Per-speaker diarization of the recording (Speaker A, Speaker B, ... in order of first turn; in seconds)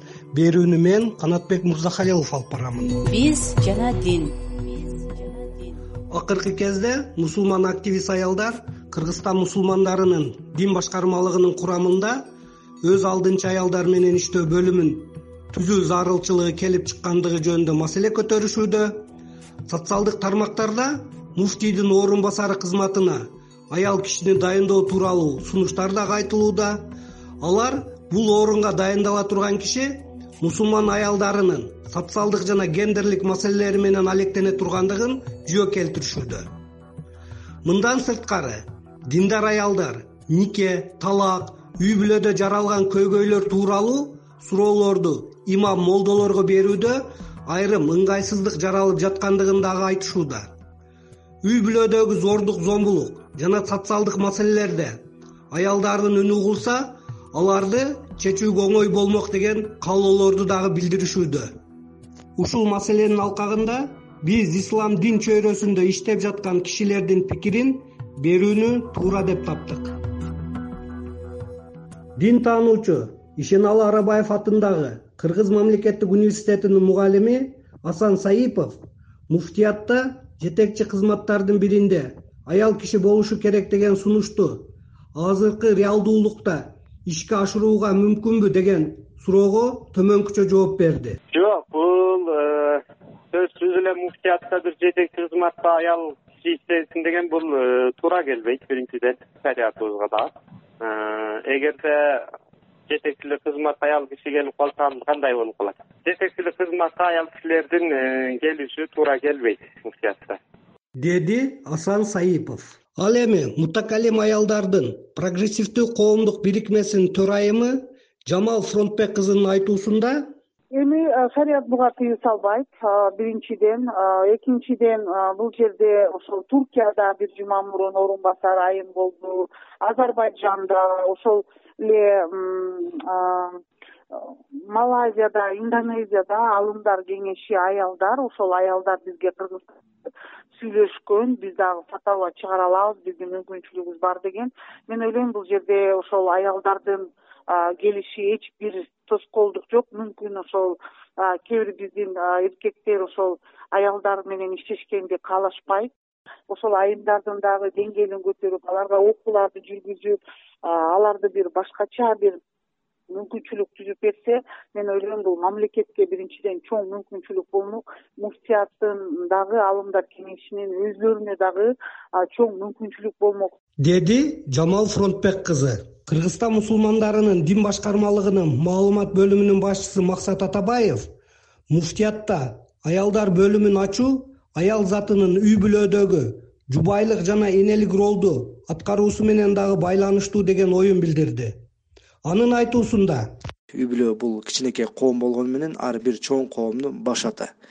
Speaker A: 0.3-3.0, 6.1-12.2, 12.8-18.9, 19.7-26.8, 27.4-36.5, 37.6-50.5, 51.4-55.0, 55.5-61.5, 62.4-69.9, 72.2-78.8, 79.3-91.2, 111.0-120.3, 173.8-181.1, 181.7-191.6, 192.2-193.3
Speaker B: 3.0-5.8
Speaker C: 91.3-102.2, 102.9-110.4
Speaker D: 120.7-133.6, 134.1-139.6, 140.5-155.9, 156.5-162.4, 163.1-173.5
Speaker E: 193.7-197.5